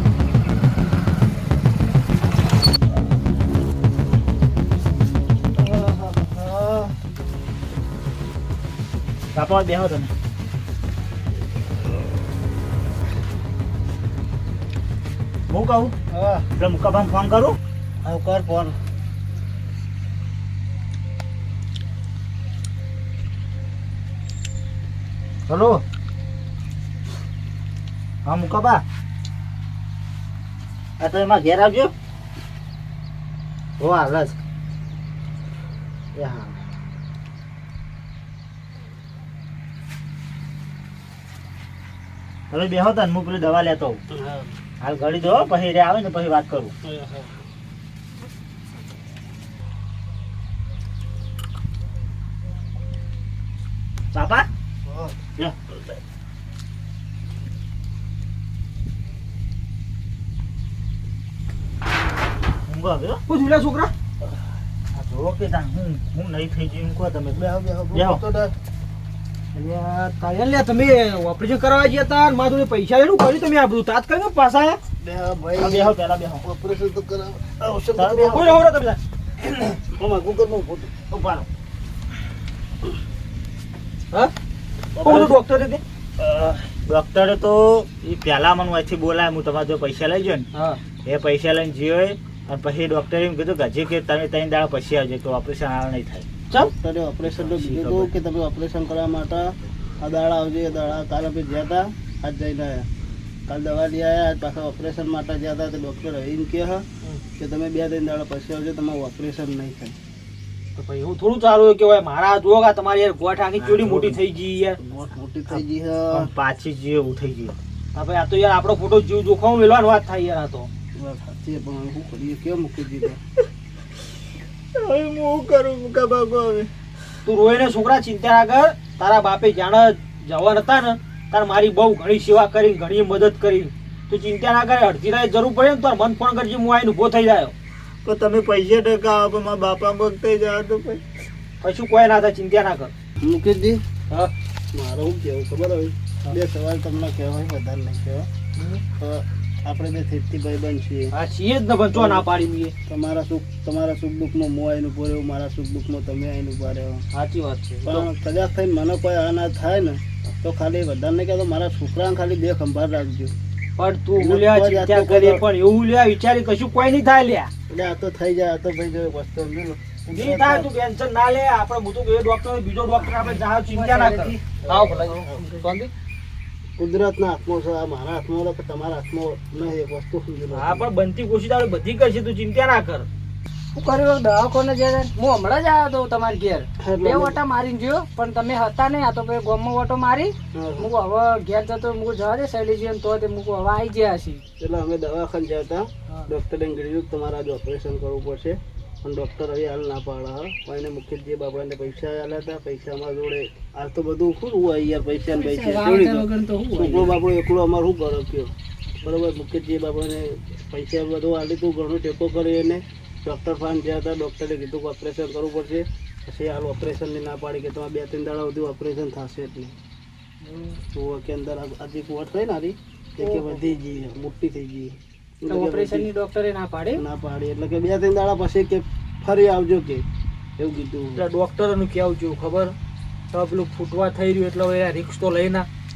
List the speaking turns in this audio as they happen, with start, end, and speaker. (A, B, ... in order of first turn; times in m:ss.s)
0:05.6-0:06.9 A
0:09.3-0:10.1 B
0:15.5-0:16.0 B
0:16.1-0:16.5 A
0:16.6-0:17.6 B
0:18.0-0:18.8 A
0:25.5-0:25.8 B
0:28.2-0:28.8 B
0:31.0-0:31.9 B
0:33.8-0:34.4 B
0:36.2-0:36.6 B
0:42.5-0:44.0 B
0:44.1-0:44.5 A
0:44.8-0:46.8 B
0:46.8-0:47.3 A
0:54.1-0:54.5 B
0:54.9-0:55.2 A
0:55.4-0:55.8 B
1:02.7-1:03.2 B
1:03.3-1:03.9 C
1:04.9-1:08.2 B
1:07.3-1:08.5 A
1:09.5-1:14.8 C
1:15.0-1:18.7 A
1:15.6-1:16.4 B
1:18.0-1:18.6 B
1:18.3-1:19.0 C
1:19.6-1:21.0 A
1:21.1-1:21.5 B
1:25.0-1:25.8 C
1:25.0-1:25.4 B
1:26.2-1:30.5 B
1:30.5-1:30.8 C
1:31.0-1:36.3 B
1:36.6-1:42.9 A
1:37.2-1:38.1 B
1:43.5-1:46.9 A
1:47.4-1:50.0 A
1:50.8-1:54.8 C
1:53.6-1:54.2 B
1:54.8-1:56.3 A
1:55.5-1:57.6 B
1:57.9-2:00.7 C
2:01.0-2:03.2 A
2:04.8-2:06.7 B
2:07.2-2:17.5 C
2:18.0-2:21.0 B
2:21.6-2:22.9 C
2:23.2-2:23.8 A
2:24.7-2:28.3 A
2:28.6-2:28.8 C
2:29.0-2:31.1 A
2:31.1-2:32.7 C
2:31.9-2:32.3 A
2:32.9-2:37.0 A
2:37.1-2:38.1 C
2:37.8-2:43.3 A
2:43.8-2:47.5 C
2:44.2-2:45.4 A
2:47.7-2:50.7 A
2:50.1-2:55.9 C
2:53.3-2:54.4 D
2:54.6-2:55.5 A
2:56.8-3:00.9 A
3:00.5-3:03.1 C
3:03.7-3:14.4 D
3:06.8-3:07.4 A
3:10.5-3:10.9 A
3:14.6-3:28.5 A
3:25.4-3:27.2 D
3:29.0-3:39.7 A
3:40.5-3:40.8 C
3:40.9-3:46.1 A
3:43.2-3:43.6 D
3:45.5-3:47.0 D
3:46.9-3:50.0 A
3:50.6-3:51.2 A
3:51.2-3:52.8 C
3:53.3-3:55.7 C